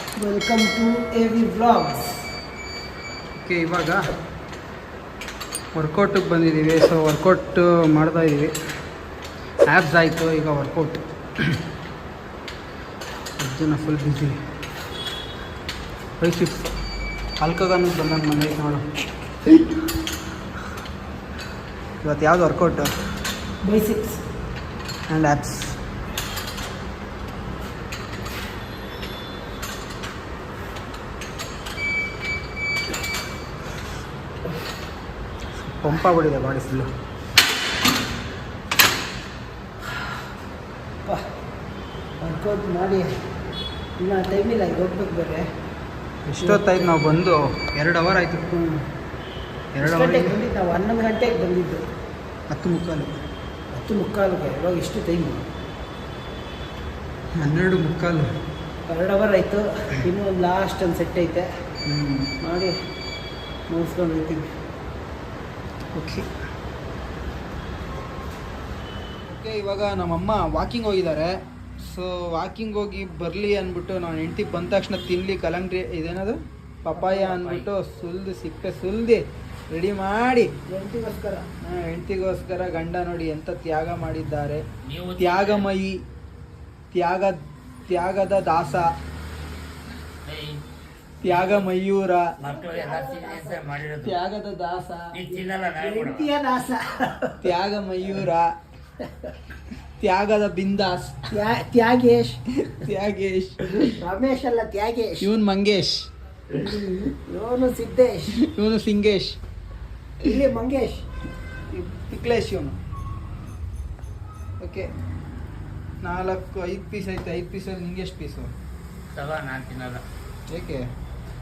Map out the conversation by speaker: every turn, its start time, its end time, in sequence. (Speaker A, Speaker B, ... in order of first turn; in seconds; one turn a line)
Speaker A: 0.2-2.1
Speaker B: 3.4-4.0
Speaker B: 5.8-8.5
Speaker B: 9.7-11.6
Speaker B: 13.4-14.4
Speaker B: 16.2-16.7
Speaker B: 17.4-18.8
Speaker B: 22.0-22.9
Speaker A: 23.6-24.2
Speaker B: 25.1-25.8
Speaker B: 35.6-36.9
Speaker A: 42.2-43.1
Speaker A: 44.0-45.5
Speaker B: 46.3-48.7
Speaker A: 46.4-46.8
Speaker B: 49.7-50.4
Speaker A: 49.8-51.8
Speaker B: 52.5-53.2
Speaker A: 53.7-55.4
Speaker B: 57.4-58.3
Speaker A: 58.9-61.5
Speaker B: 61.9-62.3
Speaker A: 62.4-62.7
Speaker A: 63.7-64.5
Speaker B: 65.9-66.2
Speaker B: 69.3-79.2
Speaker C: 77.1-77.6
Speaker B: 79.7-80.5
Speaker A: 80.7-81.5
Speaker B: 81.6-84.6
Speaker C: 84.9-85.7
Speaker B: 85.2-86.0
Speaker B: 86.9-87.4
Speaker B: 87.9-88.9
Speaker C: 90.2-90.6
Speaker B: 91.2-92.2
Speaker C: 91.3-91.7
Speaker C: 92.4-94.1
Speaker A: 92.5-93.7
Speaker B: 94.0-95.1
Speaker C: 95.1-96.3
Speaker A: 95.4-97.4
Speaker B: 97.4-98.5
Speaker B: 100.0-101.3
Speaker A: 101.3-102.4
Speaker B: 102.6-104.0
Speaker A: 104.0-105.3
Speaker B: 105.2-106.1
Speaker A: 106.5-108.3
Speaker B: 108.5-109.4
Speaker A: 110.2-111.0
Speaker B: 111.7-112.8
Speaker B: 114.6-114.9
Speaker B: 116.0-118.5
Speaker C: 119.1-120.0
Speaker B: 120.5-120.8